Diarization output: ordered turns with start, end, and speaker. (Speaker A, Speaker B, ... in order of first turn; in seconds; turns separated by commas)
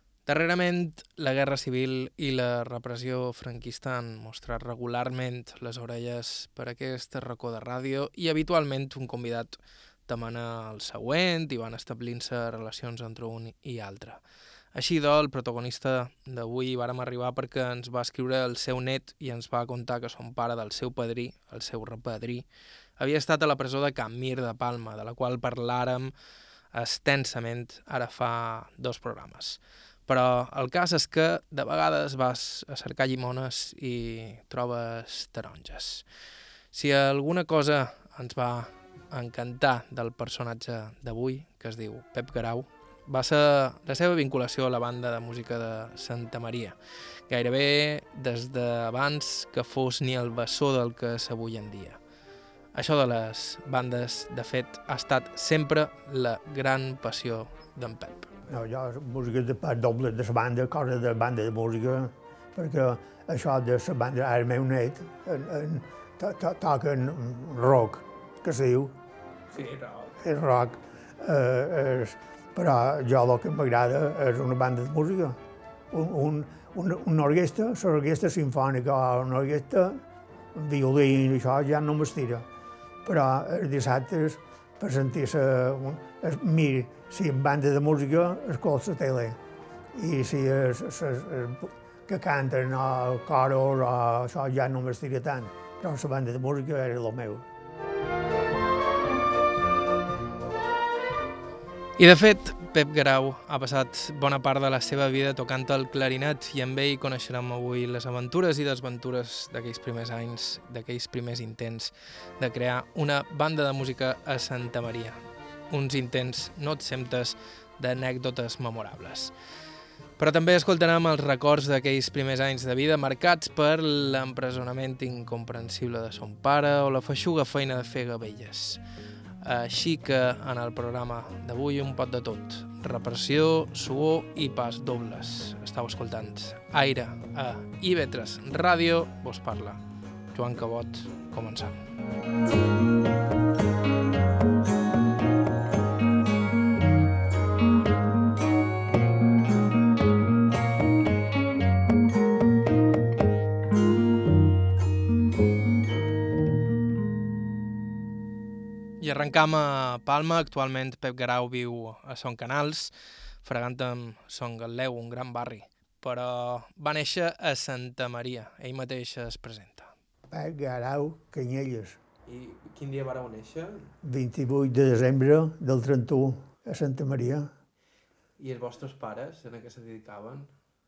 Speaker A: 0.2-14.2, Speaker A: 14.7-22.5, Speaker A: 23.0-26.1, Speaker A: 26.7-36.0, Speaker A: 36.7-46.8, Speaker A: 47.3-52.0, Speaker A: 52.7-58.5, Speaker B: 58.5-69.0, Speaker A: 69.5-70.2, Speaker B: 70.2-75.4, Speaker B: 75.9-80.0, Speaker B: 80.5-82.5, Speaker B: 83.0-89.4, Speaker B: 89.9-97.4, Speaker A: 102.0-115.2, Speaker A: 115.7-119.3, Speaker A: 120.2-128.8, Speaker A: 129.4-139.8, Speaker A: 140.3-141.8, Speaker A: 159.0-169.9, Speaker B: 170.3-172.0, Speaker A: 172.3-173.9, Speaker B: 174.0-177.5, Speaker A: 178.4-180.5